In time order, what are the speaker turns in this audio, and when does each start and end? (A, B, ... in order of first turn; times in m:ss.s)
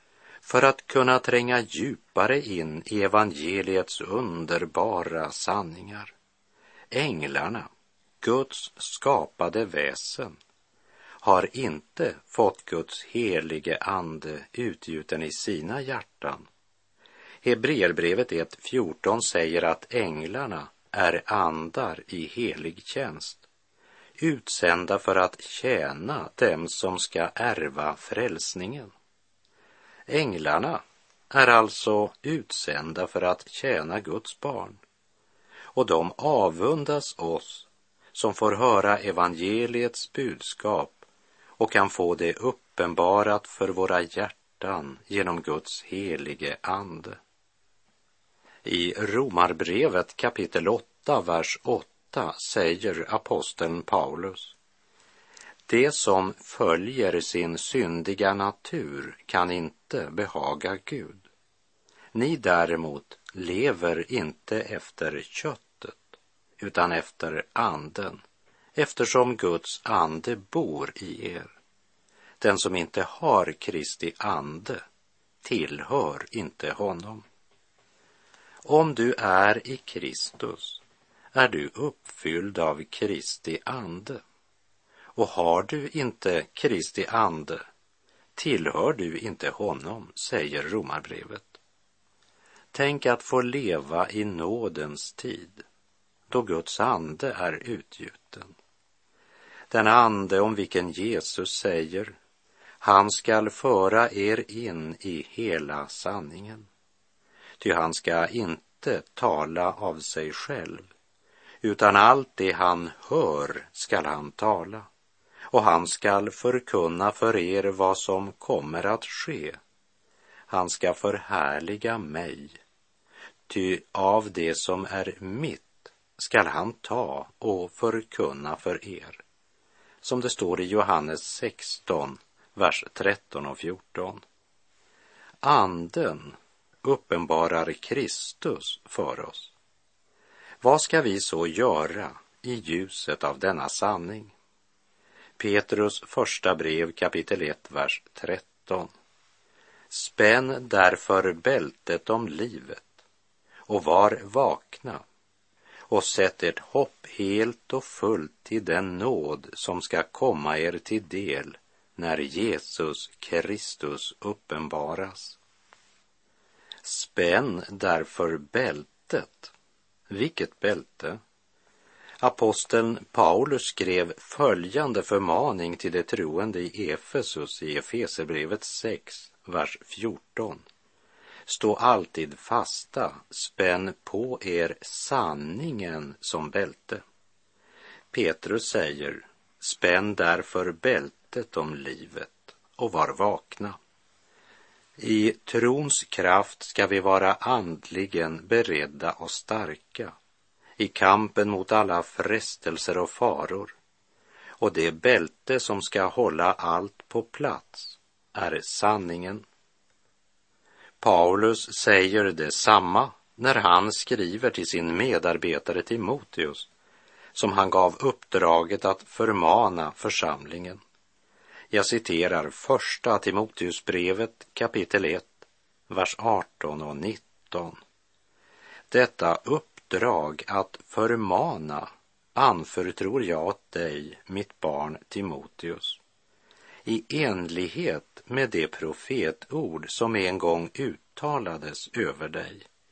0:00.4-0:06.1 A
0:06.9-0:07.7 A
0:08.2-0:10.4 A
0:11.2-0:16.5 A
0:17.4-0:23.4 A
0:24.2-0:28.9 A
0:30.1-0:34.8 A
0:35.7-0:41.0 A
0:41.6-0:47.2 A
0:48.6-0:54.5 A
0:55.7-1:01.2 A
1:02.1-1:08.2 A
1:08.8-1:11.5 A
1:12.4-1:14.8 A
1:15.4-1:17.2 A
1:18.6-1:20.8 A
1:21.3-1:24.2 A
1:25.2-1:27.6 A
1:28.4-1:31.6 A
1:32.7-1:35.6 A
1:36.3-1:38.5 A
1:39.7-1:42.1 A
1:42.8-1:46.7 A
1:47.6-1:50.9 A
1:51.6-1:54.9 A
1:55.5-1:59.6 A
2:00.5-2:02.6 A
2:03.5-2:09.2 A
2:10.0-2:14.2 A
2:15.4-2:19.5 A
2:20.6-2:24.3 A
2:25.4-2:28.9 A
2:29.9-2:32.9 A
2:33.7-2:35.0 A
2:35.9-2:45.4 A
2:46.8-2:49.5 A
2:50.1-2:51.2 A
2:52.2-3:00.6 A
3:01.5-3:07.0 A
3:08.1-3:13.8 A
3:15.0-3:20.1 A
3:20.8-3:23.7 A
3:24.6-3:29.4 A
3:31.0-3:36.7 A
3:37.3-3:40.8 A
3:41.7-3:47.8 A
3:48.9-3:56.0 A
3:56.8-4:02.7 A